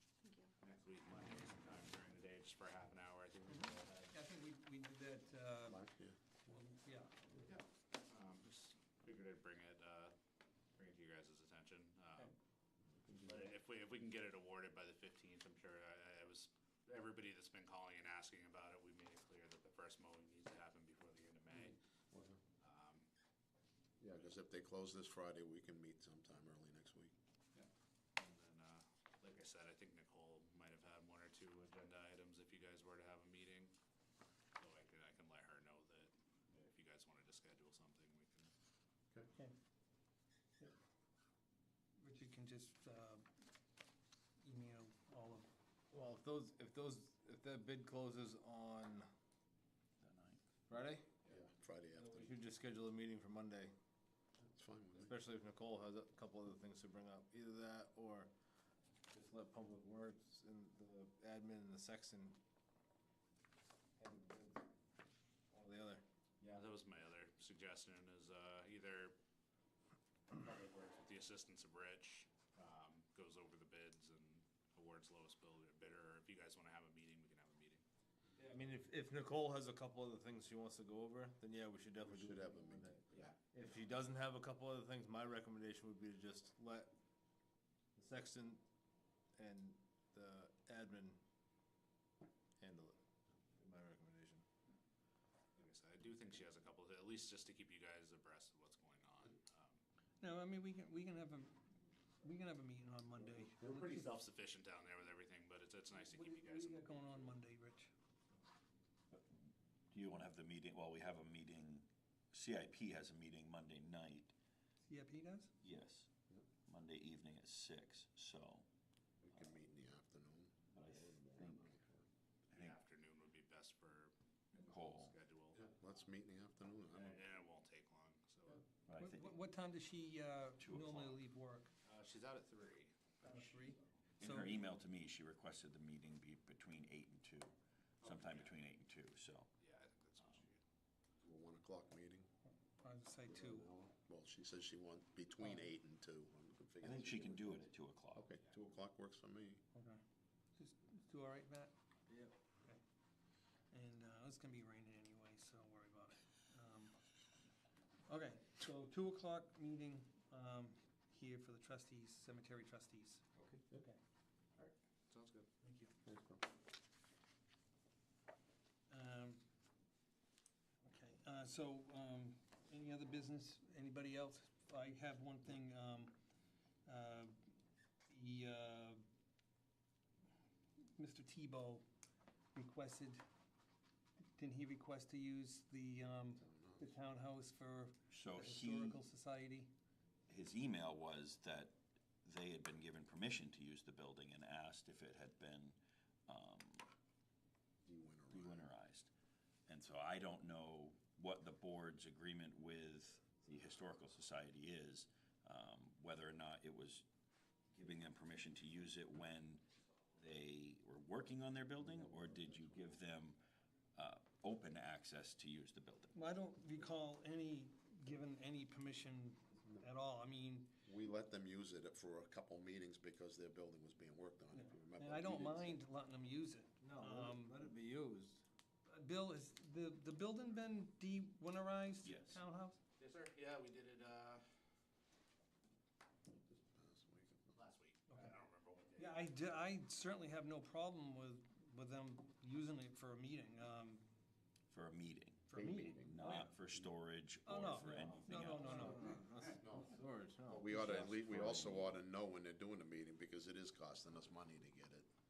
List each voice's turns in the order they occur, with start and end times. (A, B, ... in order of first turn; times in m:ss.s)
0:00.6-0:04.1 A
0:03.5-0:05.8 B
0:05.7-0:06.2 C
0:06.5-0:07.1 B
0:07.4-0:10.1 A
0:10.8-0:12.3 A
0:12.9-0:13.5 C
0:13.2-0:21.8 A
0:21.7-0:22.4 C
0:22.6-0:23.1 A
0:24.0-0:27.1 C
0:27.5-0:33.8 A
0:34.6-0:38.5 A
0:42.0-0:43.2 B
0:44.4-0:45.5 B
0:45.9-0:49.1 D
0:50.0-0:50.4 E
0:50.7-0:51.3 D
0:51.3-0:52.4 C
0:52.0-0:53.7 D
0:54.4-0:55.2 C
0:55.0-0:58.3 D
0:59.1-1:02.4 D
1:04.0-1:04.7 D
1:05.5-1:06.6 D
1:06.4-1:09.2 A
1:10.3-1:17.8 A
1:18.4-1:26.9 D
1:22.0-1:23.3 C
1:27.9-1:28.6 D
1:29.3-1:31.2 D
1:32.6-1:33.0 D
1:33.5-1:34.4 D
1:35.6-1:39.8 A
1:40.2-1:41.6 B
1:42.2-1:44.2 B
1:43.4-1:47.1 A
1:45.9-1:47.9 B
1:49.1-1:54.3 E
1:54.9-1:55.5 B
1:55.6-1:56.1 E
1:56.7-1:58.7 E
1:59.2-2:02.0 C
2:00.7-2:01.7 E
2:02.5-2:05.7 A
2:04.7-2:05.1 E
2:05.5-2:07.2 C
2:06.9-2:08.7 A
2:08.9-2:09.4 E
2:09.0-2:11.7 B
2:10.6-2:11.2 E
2:11.8-2:13.8 A
2:13.2-2:14.6 B
2:14.2-2:19.5 E
2:18.0-2:18.5 A
2:19.6-2:20.6 A
2:21.2-2:22.3 C
2:22.8-2:23.8 B
2:23.3-2:27.6 C
2:25.4-2:25.7 B
2:26.8-2:28.3 E
2:28.1-2:29.6 C
2:29.7-2:30.0 B
2:30.6-2:31.7 B
2:32.1-2:32.4 D
2:33.7-2:37.0 B
2:38.1-2:44.0 B
2:43.4-2:43.6 E
2:44.6-2:45.5 A
2:45.6-2:45.9 B
2:46.0-2:46.4 C
2:48.9-2:49.4 B
2:50.8-2:56.1 B
2:56.8-2:57.3 B
2:58.1-2:59.0 B
3:01.0-3:01.8 B
3:02.5-3:03.2 B
3:04.4-3:09.7 B
3:06.4-3:06.8 C
3:08.1-3:09.0 E
3:10.3-3:16.9 E
3:17.8-3:18.7 C
3:18.3-3:19.1 E
3:19.7-3:27.0 E
3:27.7-3:29.6 E
3:30.2-3:33.4 E
3:32.0-3:32.5 C
3:33.9-3:36.1 E
3:36.1-3:40.7 B
3:40.8-3:45.8 C
3:44.5-3:47.7 B
3:46.8-3:48.4 D
3:48.8-3:52.8 B
3:52.0-3:52.4 E
3:53.0-3:54.4 A
3:56.3-3:57.5 C
3:57.5-3:59.3 A
3:58.1-3:58.4 B
3:59.0-4:04.0 B
4:04.7-4:08.8 E
4:05.5-4:06.5 B
4:05.5-4:06.9 C
4:07.4-4:09.2 B
4:08.0-4:12.0 D
4:09.6-4:15.1 C